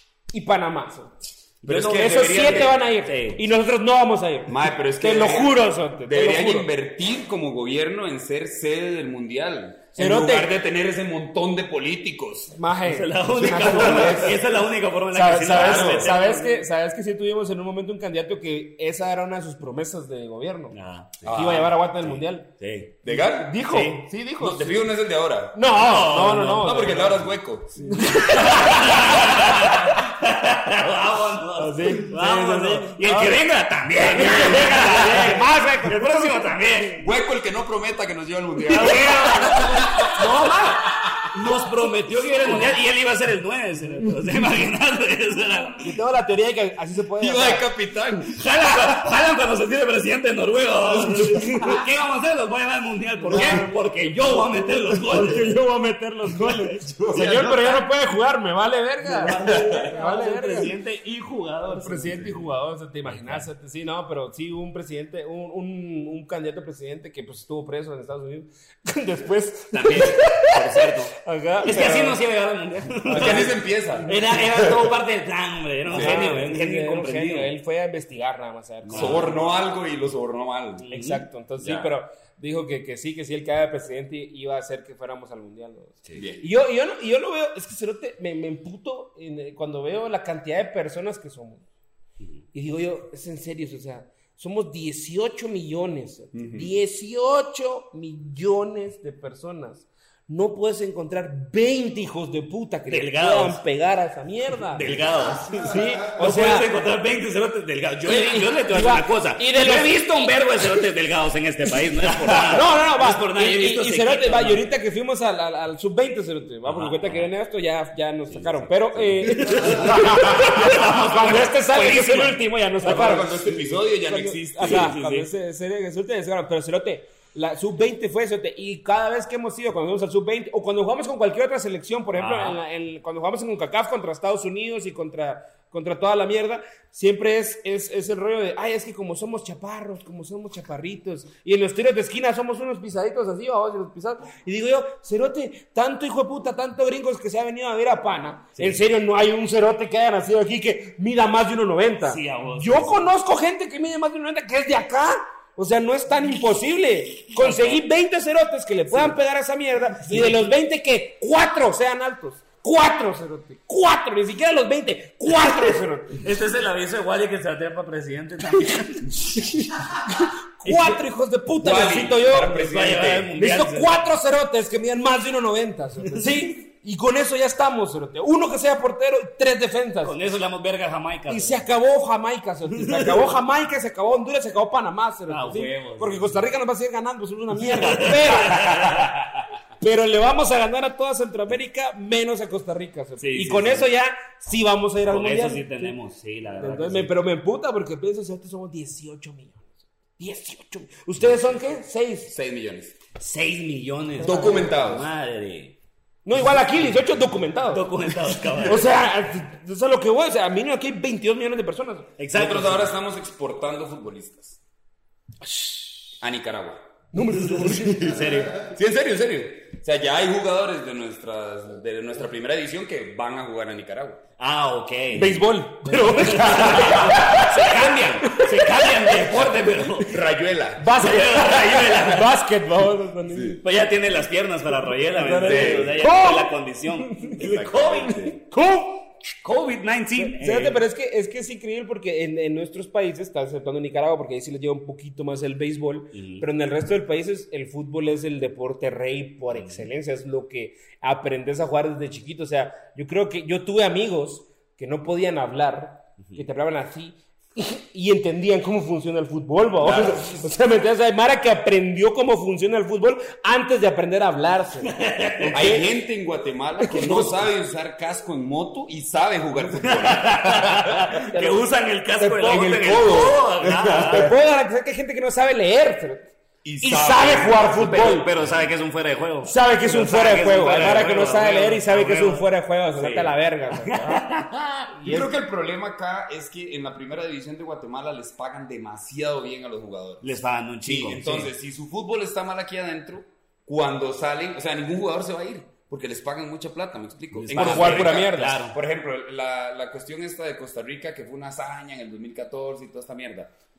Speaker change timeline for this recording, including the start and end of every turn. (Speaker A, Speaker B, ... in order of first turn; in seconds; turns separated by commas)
Speaker A: 0.3-6.7, Speaker B: 1.6-3.4, Speaker C: 1.6-2.8, Speaker C: 4.5-12.6, Speaker A: 10.0-10.5, Speaker A: 12.5-14.4, Speaker B: 12.8-16.6, Speaker C: 13.6-14.3, Speaker A: 15.1-20.8, Speaker C: 15.6-16.1, Speaker B: 20.7-23.0, Speaker C: 21.2-21.8, Speaker A: 21.3-22.5, Speaker C: 23.0-23.6, Speaker A: 23.1-24.9, Speaker B: 23.7-24.1, Speaker C: 24.4-29.3, Speaker A: 25.5-27.2, Speaker B: 25.8-27.1, Speaker A: 27.8-29.9, Speaker B: 28.0-37.1, Speaker A: 31.6-33.4, Speaker A: 34.0-36.5, Speaker C: 34.2-35.0, Speaker C: 37.0-41.3, Speaker B: 38.7-46.0, Speaker A: 45.8-47.7, Speaker C: 47.2-48.4, Speaker B: 48.3-55.6, Speaker A: 51.1-51.8, Speaker A: 53.2-60.7, Speaker C: 53.3-53.7, Speaker C: 56.6-57.8, Speaker B: 59.0-62.5, Speaker C: 59.4-59.9, Speaker A: 61.7-72.2, Speaker B: 63.0-63.5, Speaker B: 69.7-77.5, Speaker A: 73.0-74.4, Speaker C: 73.1-74.9, Speaker C: 75.9-76.3, Speaker A: 75.9-79.4, Speaker B: 78.8-79.3, Speaker C: 78.9-80.9, Speaker B: 80.8-81.3, Speaker A: 80.9-91.7, Speaker C: 81.6-81.9, Speaker C: 86.2-86.5, Speaker A: 92.5-104.9, Speaker C: 96.3-96.8, Speaker B: 102.9-103.6, Speaker B: 104.7-114.6, Speaker A: 105.6-106.7, Speaker A: 108.1-110.0, Speaker A: 112.5-166.3, Speaker B: 116.7-117.3, Speaker B: 118.3-123.6, Speaker C: 119.6-120.5, Speaker C: 122.8-125.1, Speaker B: 124.6-125.2, Speaker B: 132.2-132.6, Speaker B: 148.6-148.8, Speaker B: 152.1-153.1, Speaker B: 157.3-157.8, Speaker B: 158.9-159.2, Speaker B: 160.1-160.4, Speaker B: 165.4-169.8, Speaker A: 169.4-172.7, Speaker B: 170.7-171.0, Speaker C: 171.6-173.3, Speaker B: 172.6-174.0, Speaker A: 173.3-180.2, Speaker B: 180.0-181.7, Speaker A: 181.3-189.1, Speaker B: 182.7-183.3, Speaker B: 185.3-186.5, Speaker B: 187.6-189.3, Speaker A: 189.8-196.0, Speaker B: 193.2-193.9, Speaker B: 195.1-197.1, Speaker A: 196.6-202.3, Speaker C: 202.3-203.0, Speaker B: 203.2-205.8, Speaker C: 204.2-205.1, Speaker A: 204.2-204.7, Speaker A: 206.2-208.0, Speaker B: 207.7-208.9, Speaker A: 208.6-212.1, Speaker B: 212.2-212.9, Speaker C: 212.3-214.6, Speaker A: 215.4-216.1, Speaker C: 216.2-216.8, Speaker A: 217.1-218.2, Speaker C: 217.8-224.2, Speaker B: 217.8-218.7, Speaker B: 224.4-230.2, Speaker A: 225.2-229.2, Speaker C: 226.8-227.4, Speaker C: 230.0-231.0, Speaker A: 230.8-233.6, Speaker B: 230.9-232.4, Speaker C: 233.3-233.6, Speaker B: 233.6-238.4, Speaker A: 235.1-237.5, Speaker C: 235.3-236.1, Speaker C: 237.3-238.4, Speaker A: 238.2-239.1, Speaker B: 239.4-240.8, Speaker A: 240.2-265.9, Speaker B: 246.1-246.5, Speaker B: 249.6-249.9, Speaker C: 259.8-260.5, Speaker B: 264.8-265.8, Speaker C: 265.5-271.2, Speaker A: 266.8-267.4, Speaker B: 269.8-274.3, Speaker A: 271.3-271.6, Speaker C: 272.2-274.3, Speaker A: 274.1-278.3, Speaker C: 276.6-278.7, Speaker B: 277.9-284.9, Speaker A: 279.4-284.3, Speaker A: 284.9-285.3, Speaker C: 285.0-303.5, Speaker B: 290.2-291.5, Speaker B: 297.3-298.8, Speaker A: 297.5-298.6